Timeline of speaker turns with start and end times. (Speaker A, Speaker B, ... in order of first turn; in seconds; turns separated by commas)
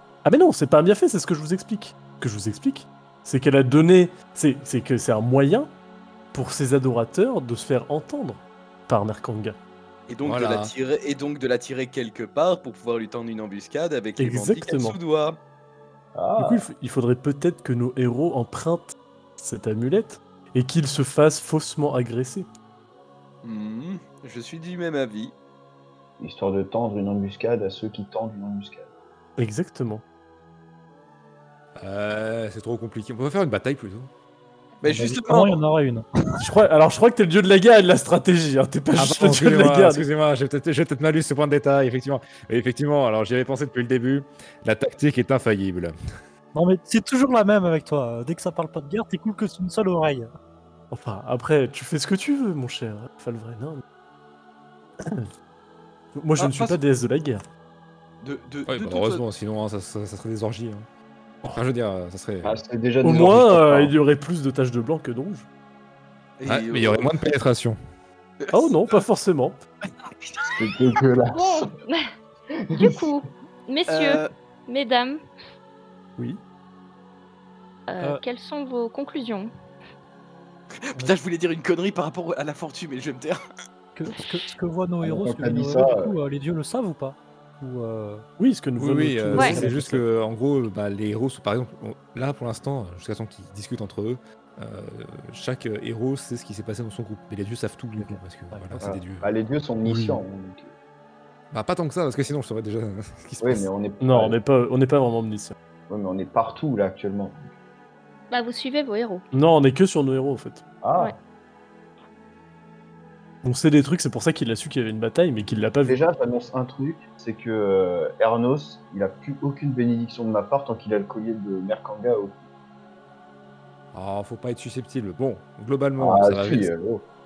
Speaker A: 0.2-5.7, Speaker A: 6.3-9.6, Speaker B: 10.1-15.4, Speaker C: 10.2-10.7, Speaker A: 14.2-15.0, Speaker D: 16.1-16.7, Speaker A: 16.4-22.5, Speaker B: 23.4-25.3, Speaker D: 26.2-28.9, Speaker A: 29.4-30.0, Speaker C: 31.8-34.1, Speaker B: 34.8-35.6, Speaker E: 34.8-36.0, Speaker A: 36.4-40.0, Speaker C: 39.0-45.9, Speaker E: 46.5-50.3, Speaker A: 50.9-53.8, Speaker A: 55.0-55.3, Speaker A: 56.1-57.4, Speaker B: 56.4-56.8, Speaker B: 58.2-59.2, Speaker C: 58.7-60.9, Speaker C: 61.5-62.5, Speaker D: 62.4-63.9, Speaker A: 63.0-65.5, Speaker B: 66.4-67.1, Speaker C: 66.5-67.8, Speaker B: 68.4-69.0, Speaker A: 68.5-69.6, Speaker B: 70.2-70.5, Speaker D: 70.5-71.7, Speaker F: 71.3-72.0, Speaker D: 72.7-73.1, Speaker F: 72.8-75.2, Speaker B: 73.9-74.3, Speaker F: 77.9-79.5, Speaker B: 80.9-83.4, Speaker E: 83.9-88.2, Speaker D: 85.0-86.1, Speaker A: 88.4-90.0, Speaker C: 88.8-99.3, Speaker E: 98.0-98.8, Speaker D: 98.8-100.7, Speaker A: 99.8-100.2, Speaker C: 101.5-103.7, Speaker D: 103.4-104.4, Speaker A: 104.0-105.5, Speaker D: 105.9-107.5, Speaker F: 108.3-109.2, Speaker A: 109.3-110.6, Speaker D: 110.8-111.2, Speaker A: 113.4-116.0, Speaker D: 115.9-122.4, Speaker C: 123.9-126.7, Speaker D: 126.0-127.0